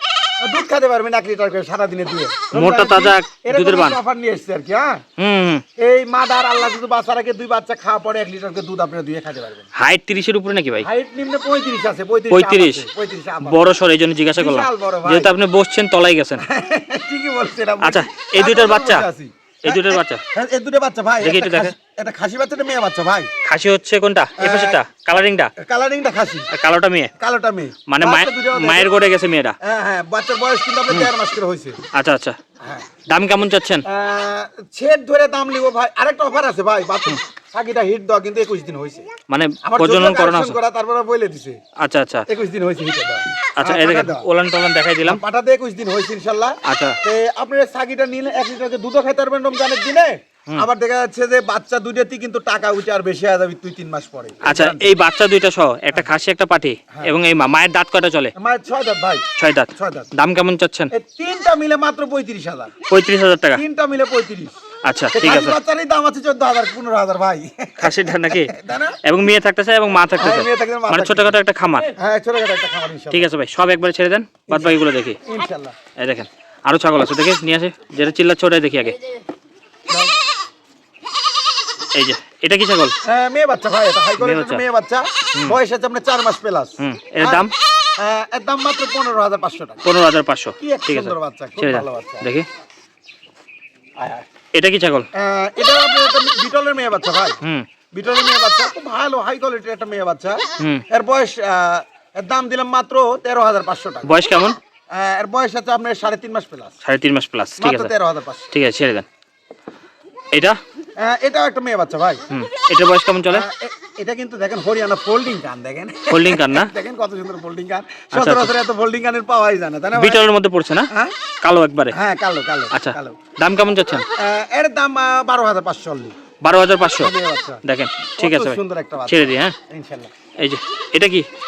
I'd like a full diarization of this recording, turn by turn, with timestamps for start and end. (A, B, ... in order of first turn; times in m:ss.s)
0:00.4-0:05.0 A
0:02.5-0:04.0 B
0:05.2-0:05.6 B
0:05.8-0:09.7 A
0:09.8-0:10.9 B
0:10.8-0:13.6 A
0:12.3-0:12.9 B
0:13.4-0:16.4 B
0:14.4-0:15.3 A
0:16.4-0:23.3 A
0:17.8-0:19.1 B
0:19.6-0:20.2 B
0:21.2-0:21.8 B
0:23.4-0:25.5 B
0:24.4-0:24.8 A
0:25.6-0:26.5 A
0:26.5-0:27.1 B
0:27.2-0:29.0 A
0:27.9-0:29.6 B
0:29.6-0:31.8 A
0:31.9-0:32.4 B
0:32.6-0:32.9 A
0:33.1-0:33.8 B
0:33.9-0:39.1 A
0:39.3-0:40.6 B
0:39.6-0:41.6 A
0:41.8-0:42.2 B
0:42.3-0:44.3 A
0:43.6-0:45.2 B
0:45.0-0:54.9 A
0:46.6-0:47.0 B
0:54.4-0:58.3 B
0:58.4-1:00.1 A
0:59.4-1:00.9 B
1:00.9-1:02.7 A
1:02.9-1:03.6 B
1:03.6-1:04.5 A
1:04.9-1:05.6 B
1:05.1-1:09.0 A
1:07.8-1:08.5 B
1:09.0-1:11.9 B
1:10.2-1:11.4 A
1:11.9-1:13.3 A
1:13.1-1:15.2 B
1:14.5-1:15.8 A
1:16.0-1:19.0 B
1:22.0-1:22.9 B
1:23.0-1:29.8 A
1:24.2-1:24.6 B
1:26.8-1:27.5 B
1:29.8-1:32.5 B
1:30.6-1:32.3 A
1:34.0-1:34.3 A
1:34.6-1:35.1 B
1:35.1-1:37.4 A
1:37.4-1:37.7 B
1:37.9-1:44.2 A
1:44.0-1:44.6 B
1:44.9-1:46.8 A
1:46.8-1:47.9 B
1:47.6-1:48.5 A
1:48.5-1:49.1 B
1:51.0-1:52.2 A
1:52.3-1:53.4 B
1:53.3-2:00.2 A
1:56.1-1:56.7 B
1:58.1-1:58.5 B
2:00.0-2:00.9 B
2:01.4-2:02.0 B
2:01.9-2:03.2 A
2:02.7-2:04.1 B
2:04.1-2:06.2 A
2:06.4-2:07.1 B
2:07.0-2:07.6 A
2:07.6-2:09.6 B
2:08.2-2:10.1 A
2:10.4-2:11.3 B